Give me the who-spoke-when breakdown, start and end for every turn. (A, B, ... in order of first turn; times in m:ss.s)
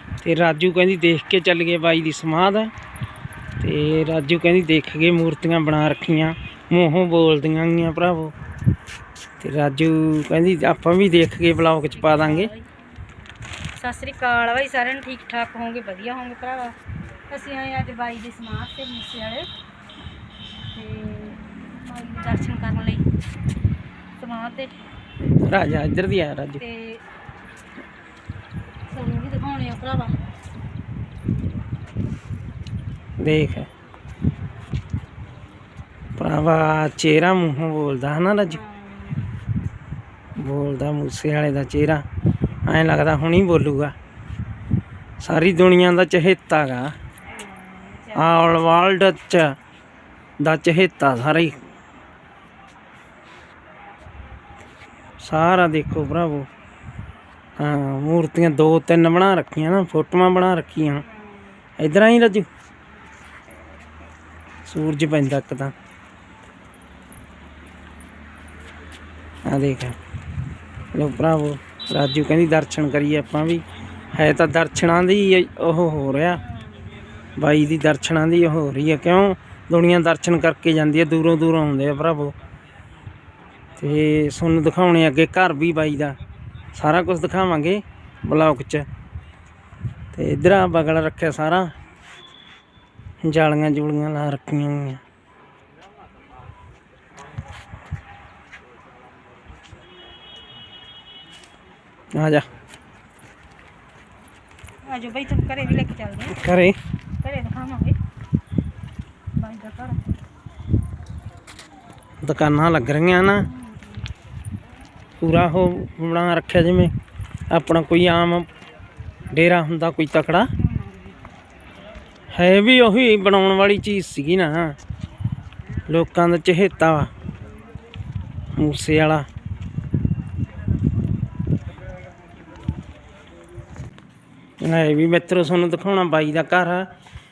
0:00.2-0:02.7 A
0:03.6-0:08.3 A
0:09.4-0:12.5 A
0:12.0-0:12.7 B
0:13.7-0:16.8 B
0:17.3-0:19.5 B
0:20.7-0:23.1 B
0:24.2-0:24.8 B
0:25.4-0:26.6 A
0:26.6-0:27.0 B
0:28.9-0:30.2 B
0:33.2-0:33.7 A
0:36.2-0:38.6 A
0:38.5-0:39.3 B
0:40.4-0:42.0 A
0:42.7-0:44.0 A
0:45.2-0:46.9 A
0:47.3-0:48.3 B
0:48.2-0:49.5 A
0:50.4-0:51.6 A
0:55.2-0:56.5 A
0:57.6-1:01.0 A
1:01.1-1:01.6 B
1:01.8-1:02.5 A
1:04.7-1:05.7 A
1:09.5-1:10.0 A
1:10.9-1:16.4 A
1:16.6-1:16.9 B
1:17.4-1:22.3 A
1:23.8-1:26.2 A
1:26.7-1:28.9 A
1:30.1-1:31.7 A
1:33.2-1:35.0 A
1:42.1-1:42.5 A
1:44.9-1:46.4 B
1:46.3-1:46.8 A
1:47.2-1:48.0 B
1:49.4-1:50.1 B
1:52.2-1:53.5 A
1:53.4-1:54.0 B
1:55.2-1:56.9 A
1:57.5-1:58.5 A
1:59.3-2:00.5 A
2:00.6-2:01.1 B
2:02.3-2:04.8 A
2:05.9-2:07.1 A
2:08.6-2:09.3 A
2:14.6-2:16.9 A